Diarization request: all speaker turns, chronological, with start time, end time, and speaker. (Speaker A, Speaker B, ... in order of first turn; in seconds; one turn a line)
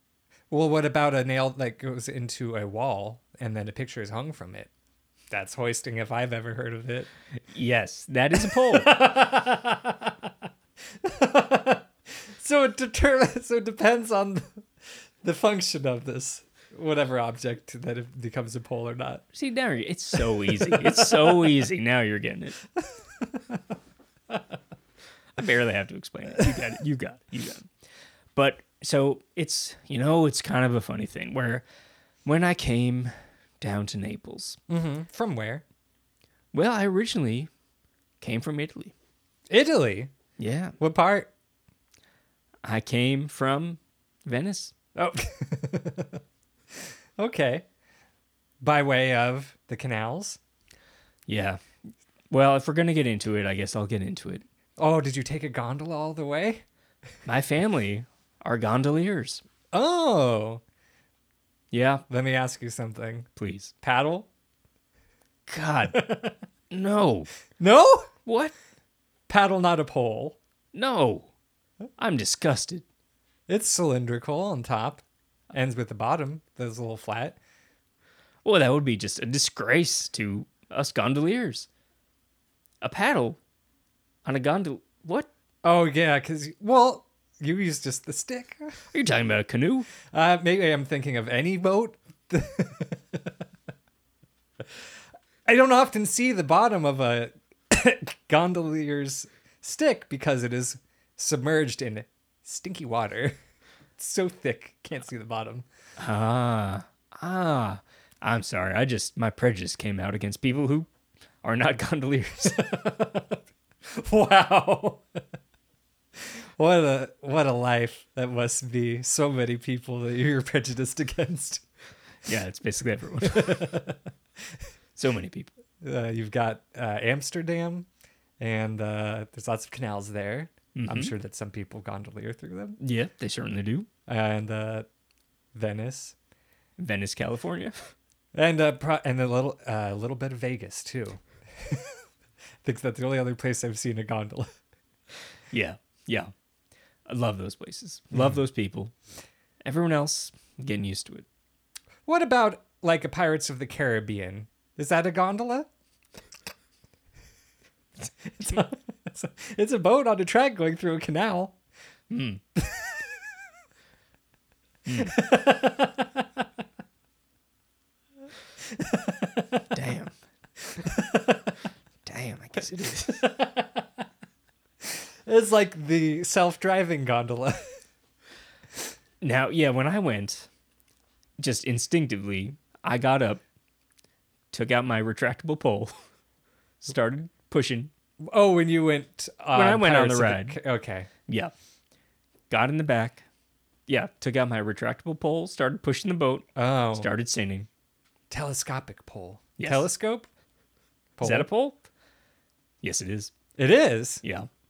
Speaker A: 0.5-4.7
Speaker A: 5.3-7.1
Speaker B: 7.5-8.9
Speaker A: 8.4-10.3
Speaker A: 11.0-14.6
Speaker A: 15.2-19.2
Speaker B: 19.3-22.6
Speaker A: 20.1-21.5
Speaker A: 22.8-23.6
Speaker B: 25.4-27.7
Speaker B: 28.4-31.6
Speaker B: 32.2-34.6
Speaker A: 34.7-35.6
Speaker B: 36.5-37.5
Speaker B: 38.2-38.9
Speaker A: 39.5-40.1
Speaker B: 40.4-40.8
Speaker A: 40.8-41.3
Speaker B: 42.6-44.7
Speaker A: 44.9-46.2
Speaker A: 47.2-47.6
Speaker A: 48.6-50.4
Speaker B: 51.3-51.6
Speaker B: 52.3-54.4
Speaker A: 54.8-56.6
Speaker B: 57.3-59.4
Speaker A: 59.7-60.6
Speaker B: 61.7-62.0
Speaker A: 62.1-63.3
Speaker B: 63.4-63.7
Speaker A: 63.8-64.3
Speaker B: 65.5-66.1
Speaker A: 65.9-66.4
Speaker B: 66.7-67.3
Speaker A: 67.6-68.1
Speaker B: 68.2-68.5
Speaker A: 69.3-70.4
Speaker B: 70.7-71.3
Speaker B: 72.0-72.8
Speaker A: 73.5-77.4
Speaker B: 78.4-81.7
Speaker B: 82.8-83.4
Speaker B: 84.2-85.3
Speaker A: 85.6-88.8
Speaker B: 88.9-89.9
Speaker A: 90.1-93.4
Speaker A: 95.4-103.4
Speaker A: 104.0-105.7
Speaker B: 106.0-110.9
Speaker B: 111.4-112.7
Speaker A: 112.5-115.2
Speaker A: 116.2-121.6
Speaker B: 122.3-123.8
Speaker A: 123.2-124.0
Speaker B: 125.0-125.5
Speaker A: 125.8-127.9
Speaker A: 128.4-132.8
Speaker B: 130.8-131.1
Speaker B: 132.8-133.9
Speaker A: 134.1-134.9
Speaker A: 135.5-136.2
Speaker B: 136.8-137.9
Speaker A: 138.3-142.0
Speaker A: 142.6-144.5
Speaker B: 145.5-146.3
Speaker B: 147.1-148.9
Speaker B: 149.6-151.3
Speaker A: 152.1-155.7
Speaker A: 158.2-161.6
Speaker B: 162.1-162.4
Speaker A: 162.6-163.1
Speaker B: 164.9-165.2
Speaker A: 165.0-166.3
Speaker A: 168.6-169.4
Speaker B: 169.7-170.1
Speaker A: 170.8-171.5
Speaker B: 172.1-173.3
Speaker A: 173.2-173.9
Speaker A: 174.8-177.7
Speaker B: 179.2-180.5
Speaker B: 181.4-183.4
Speaker B: 184.5-185.9
Speaker B: 186.8-187.9
Speaker A: 188.2-191.1
Speaker B: 189.5-190.6
Speaker B: 191.3-191.5
Speaker B: 192.5-193.2
Speaker B: 193.9-197.7
Speaker A: 196.6-197.1
Speaker A: 198.3-200.3
Speaker B: 199.6-199.9
Speaker A: 201.2-201.5
Speaker B: 201.2-201.9
Speaker B: 202.8-203.3
Speaker A: 203.6-204.2
Speaker B: 204.2-204.5